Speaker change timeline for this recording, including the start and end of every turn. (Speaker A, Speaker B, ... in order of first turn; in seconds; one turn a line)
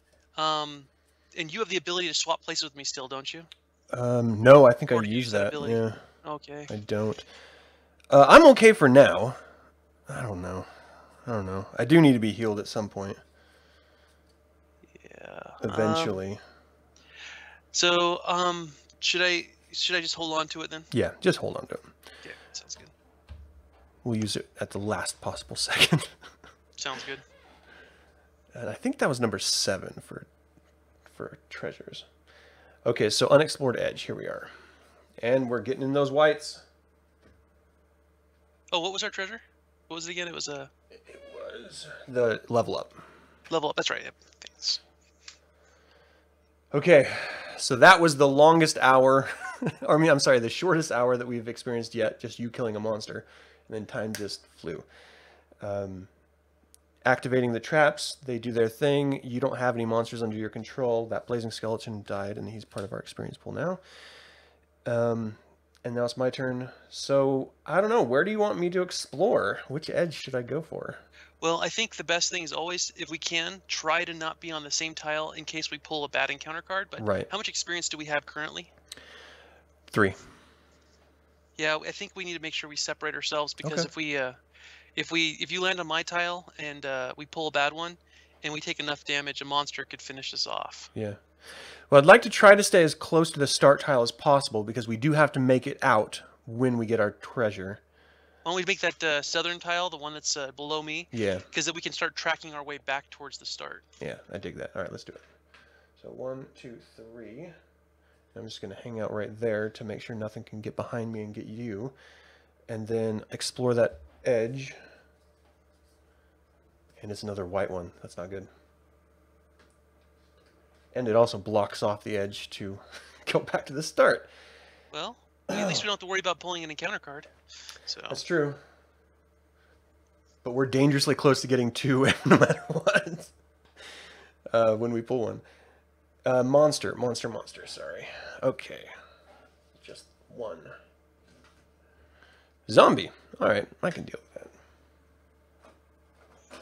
Speaker A: 0.3-3.5
Speaker B: 3.9-6.0
Speaker A: 4.9-6.7
Speaker B: 6.7-7.2
Speaker B: 8.1-9.4
Speaker B: 10.1-13.2
Speaker A: 14.9-16.2
Speaker B: 15.6-16.4
Speaker A: 17.7-20.9
Speaker B: 20.9-21.9
Speaker A: 22.2-22.9
Speaker B: 24.0-26.2
Speaker A: 26.8-27.2
Speaker B: 28.5-30.3
Speaker B: 31.1-32.1
Speaker B: 32.8-34.5
Speaker B: 35.2-36.6
Speaker A: 38.7-40.7
Speaker B: 41.0-43.0
Speaker A: 43.5-44.8
Speaker B: 46.7-54.9
Speaker B: 55.6-56.1
Speaker B: 57.0-63.8
Speaker B: 64.8-71.0
Speaker A: 71.4-78.7
Speaker B: 77.0-77.3
Speaker B: 79.9-80.2
Speaker A: 81.6-84.4
Speaker B: 83.6-83.9
Speaker A: 85.0-90.9
Speaker B: 90.9-91.2
Speaker B: 91.9-97.8
Speaker A: 98.4-103.8
Speaker B: 101.1-101.5
Speaker B: 104.0-105.3
Speaker B: 106.0-107.5
Speaker B: 108.3-111.9
Speaker B: 112.7-114.8
Speaker B: 117.0-118.5
Speaker B: 120.9-124.3
Speaker A: 124.9-127.3
Speaker B: 125.5-125.8
Speaker A: 127.8-128.2
Speaker B: 128.1-128.6
Speaker B: 130.4-133.3
Speaker B: 134.5-135.4
Speaker B: 136.2-138.9
Speaker B: 139.8-140.7
Speaker B: 142.7-144.5